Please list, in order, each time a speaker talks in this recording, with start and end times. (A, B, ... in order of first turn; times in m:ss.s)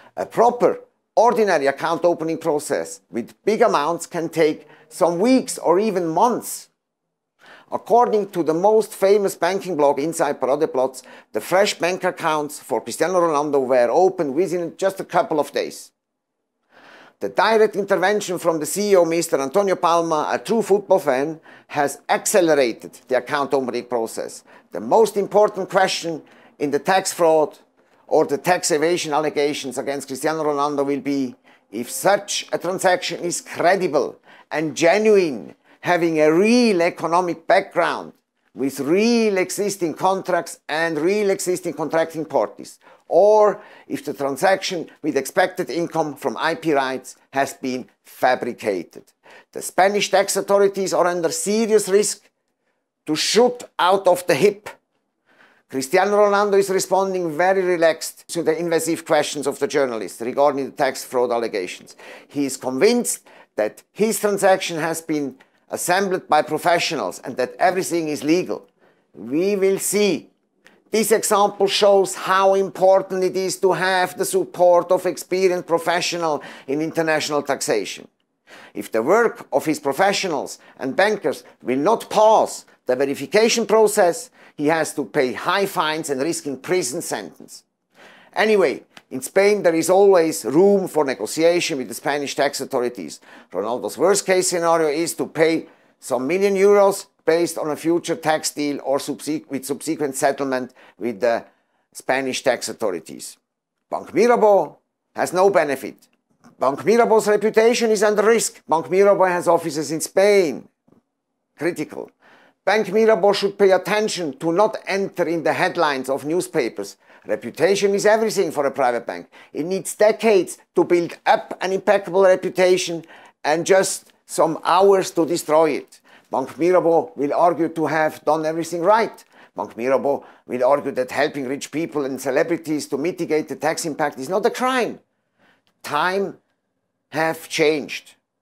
0:00.2-0:06.7 A
0:07.7-0:15.9 A
0:17.2-0:52.3 A
0:53.1-0:54.7 A
0:55.7-1:10.3 A
1:10.9-1:18.1 A
1:18.7-1:27.6 A
1:28.4-1:43.4 A
1:43.9-1:46.0 A
1:46.6-1:50.7 A
1:51.6-1:52.1 A
1:52.6-2:15.0 A
2:15.8-2:16.4 A
2:17.1-2:18.2 A